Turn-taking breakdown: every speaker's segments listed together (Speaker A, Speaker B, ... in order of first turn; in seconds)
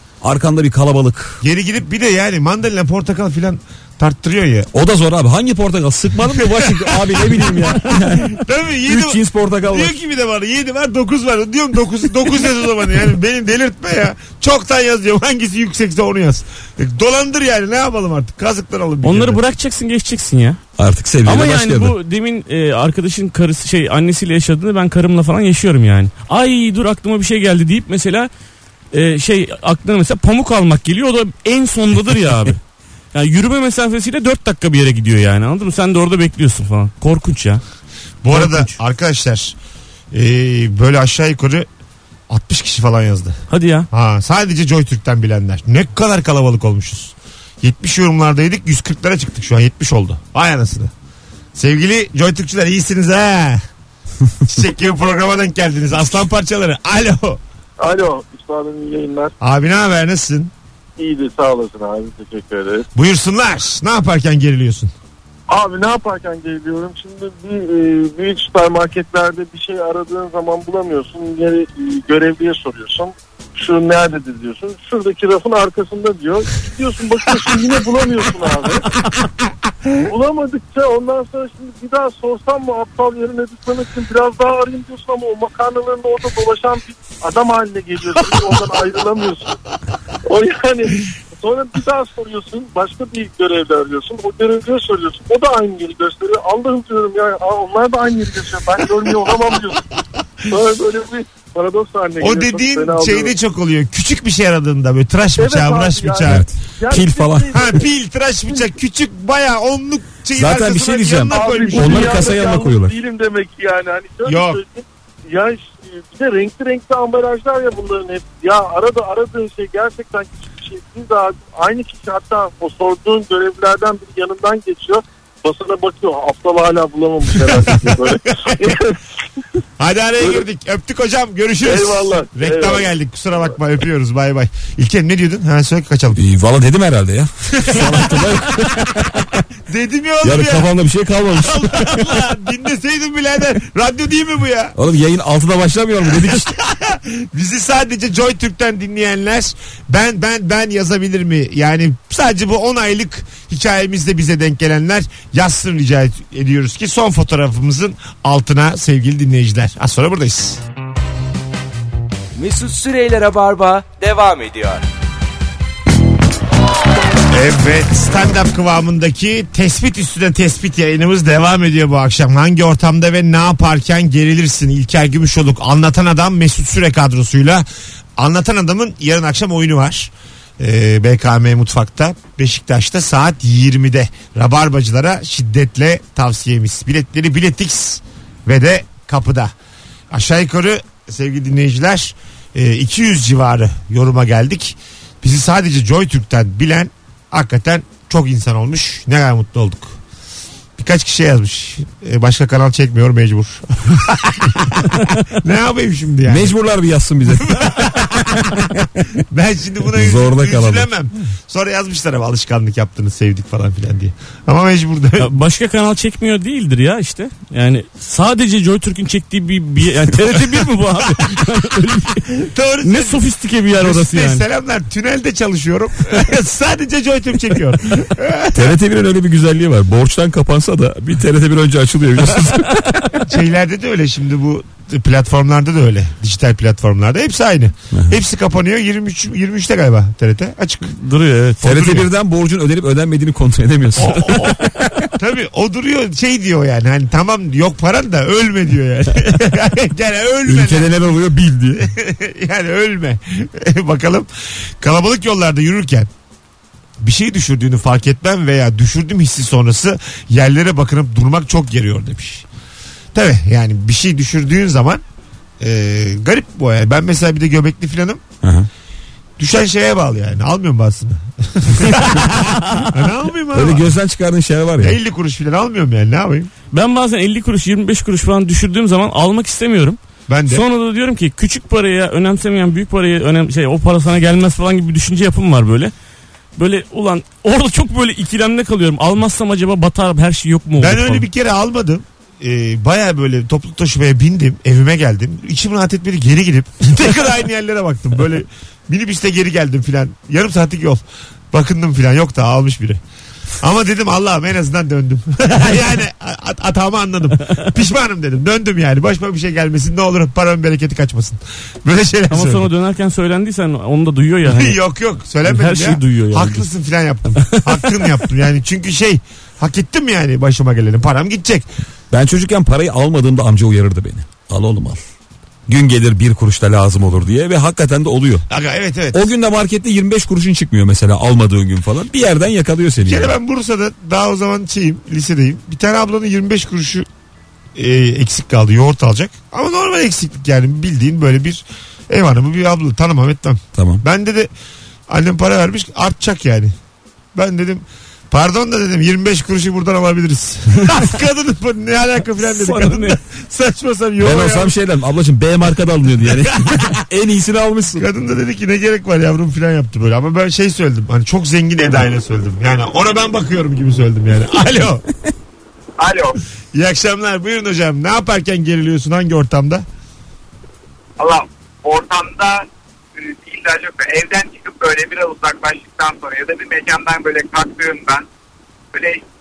Speaker A: 0.2-1.4, 4.7-9.9, 20.8-22.0, 106.2-107.7, 110.4-113.0, 136.2-139.3, 140.2-142.2, 144.8-146.5, 206.3-208.0, 209.9-210.9, 228.5-232.9, 241.6-244.4, 250.5-251.9, 268.4-268.7, 273.5-275.0, 322.1-325.0, 325.7-328.4, 329.1-333.4, 343.8-344.0, 354.2-358.1
Speaker B: 1.4-4.7, 6.4-19.4, 38.2-39.6, 40.1-41.7, 42.3-43.4, 43.9-50.9, 51.5-53.6, 54.5-57.4, 59.4-60.5, 63.0-64.9, 102.2-106.5, 107.5-112.3, 114.3-114.6, 127.9-128.7, 129.8-136.2, 137.6-138.3, 139.7-140.7, 141.4-144.8, 146.3-160.6, 167.3-177.7, 178.2-189.5, 190.1-200.0, 200.8-206.6, 207.5-208.6, 209.3-215.3, 222.3-228.8, 233.3-240.9, 241.6-242.1, 244.0-250.9, 251.8-254.3, 254.8-256.1, 257.0-262.4, 263.1-265.0, 265.6-268.3, 269.4-273.9, 274.8-276.5, 280.3-280.6, 290.8-303.0, 303.6-312.7, 314.4-321.7, 328.5-329.3, 333.1-337.1, 337.8-344.5, 345.1-346.7, 347.4-354.7, 356.4-357.0, 357.9-365.0, 366.7-369.9
Speaker C: 19.0-20.6, 21.2-28.3, 28.9-32.6, 33.1-37.6, 38.3-38.8, 43.5-43.9, 215.2-222.3, 222.8-224.4, 240.9-241.6, 244.2-244.9, 276.7-285.9, 286.6-291.3, 312.3-314.8, 315.4-316.7, 352.4-353.2
Speaker D: 57.8-59.3, 61.0-62.9, 65.5-78.8, 80.1-89.5, 90.3-99.8, 100.5-103.3, 105.4-107.8, 111.3-128.8, 131.7-132.8
Speaker E: 162.3-164.8
Speaker F: 366.0-366.4, 371.2-372.7, 373.2-378.2, 378.9-379.2